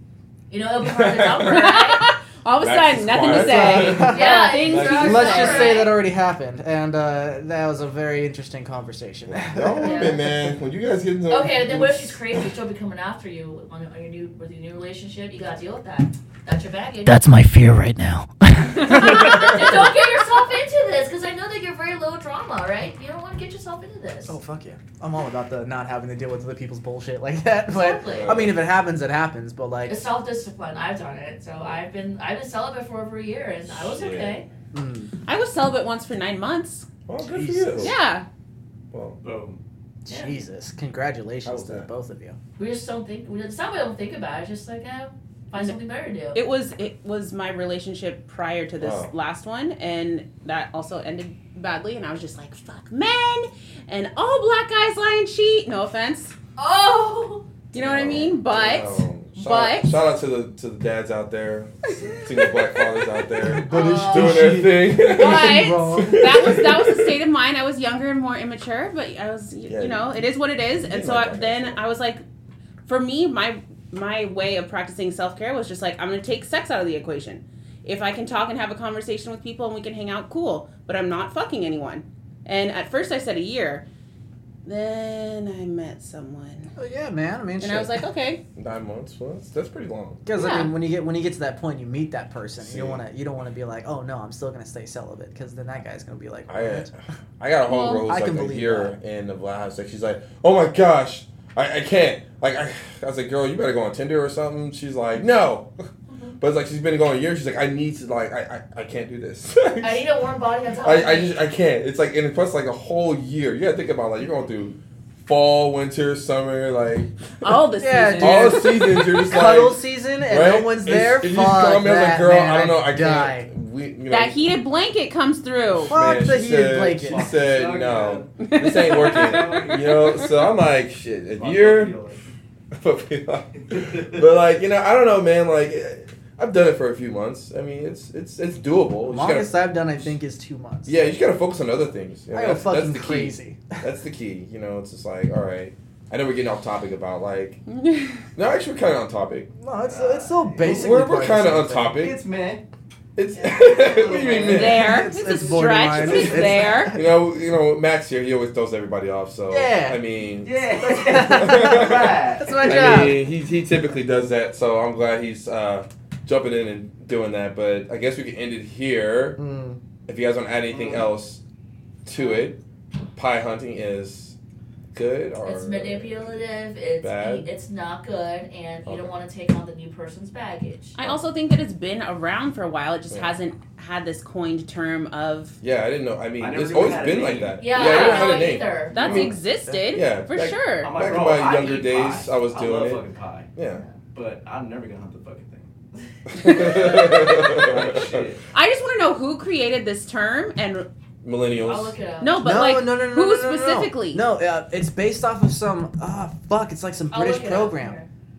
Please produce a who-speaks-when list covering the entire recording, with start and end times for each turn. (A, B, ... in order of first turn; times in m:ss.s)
0:00.5-0:02.1 A
0:00.8-0:01.7 B
0:01.4-0:05.9 C
0:02.6-0:05.3 B
0:03.2-0:10.3 D
0:04.0-0:06.0 A
0:09.3-0:12.2 B
0:09.8-0:10.2 A
0:11.3-0:17.2 A
0:17.0-0:19.8 D
0:18.7-0:24.4 A
0:24.2-0:30.0 D
0:27.7-0:28.4 A
0:28.1-0:28.6 B
0:29.9-0:34.5 A
0:33.7-0:34.4 B
0:34.7-0:35.1 D
0:35.2-0:36.9 C
0:37.1-0:37.9 B
0:37.2-0:37.9 D
0:37.8-0:38.2 C
0:38.9-0:39.2 B
0:39.2-0:39.6 E
0:40.0-0:42.4 D
0:40.1-0:40.3 A
0:41.4-0:41.9 B
0:42.6-0:46.4 A
0:46.3-0:56.3 C
0:48.8-0:49.1 B
0:56.6-0:57.5 A
0:57.7-1:00.0 C
0:57.7-1:07.1 B
1:02.0-1:02.6 C
1:03.4-1:06.5 D
1:03.7-1:04.6 A
1:05.1-1:12.2 C
1:09.7-1:10.1 B
1:10.8-1:11.8 B
1:12.8-1:23.8 C
1:24.6-1:26.7 C
1:26.8-1:28.0 D
1:27.6-1:28.4 C
1:28.6-1:30.2 B
1:30.2-1:36.9 D
1:30.3-1:30.7 C
1:32.6-1:33.0 B
1:36.5-1:45.7 B
1:37.7-1:38.0 C
1:37.9-1:39.0 D
1:46.1-1:46.3 A
1:46.4-1:50.1 B
1:49.8-1:51.4 A
1:50.8-1:57.1 B
1:57.4-1:59.1 C
1:57.8-2:03.5 D
1:58.2-2:04.4 B
2:04.1-2:06.1 C
2:05.7-2:11.9 B
2:05.9-2:07.2 D
2:07.0-2:10.3 E
2:08.4-2:09.9 C
2:11.3-2:12.2 E
2:12.7-2:19.6 B
2:13.6-2:14.2 E
2:19.1-2:21.2 D
2:20.9-2:27.6 B
2:22.3-2:23.8 D
2:27.7-2:28.2 C
2:28.3-2:29.5 B
2:29.6-2:32.0 D
2:29.8-2:31.1 E
2:30.6-2:32.2 B
2:31.9-2:32.6 E
2:33.2-2:35.0 B
2:33.3-2:34.9 E
2:34.4-2:37.0 C
2:34.6-2:37.1 D
2:35.9-2:49.4 B
2:39.5-2:40.0 D
2:40.4-2:42.5 E
2:40.9-2:43.2 D
2:42.6-2:43.1 C
2:49.4-2:49.8 D
2:50.1-2:51.4 B
2:50.7-2:51.1 E
2:52.0-2:52.6 B
2:52.1-2:52.4 A
2:53.1-2:54.4 B
2:54.9-2:56.3 B
2:55.4-3:00.9 A
2:57.0-2:57.5 B
2:58.8-2:59.2 B
3:01.0-3:05.6 C
3:05.6-3:13.8 B
3:06.4-3:07.8 E
3:07.6-3:09.3 A
3:07.8-3:10.9 C
3:10.8-3:13.5 E
3:14.1-3:15.7 E
3:16.4-3:18.2 B
3:16.4-3:18.4 E
3:18.5-3:20.9 C
3:21.2-3:22.0 B
3:21.6-3:22.4 A
3:22.2-3:24.2 C
3:22.4-3:28.0 D
3:27.1-3:28.1 A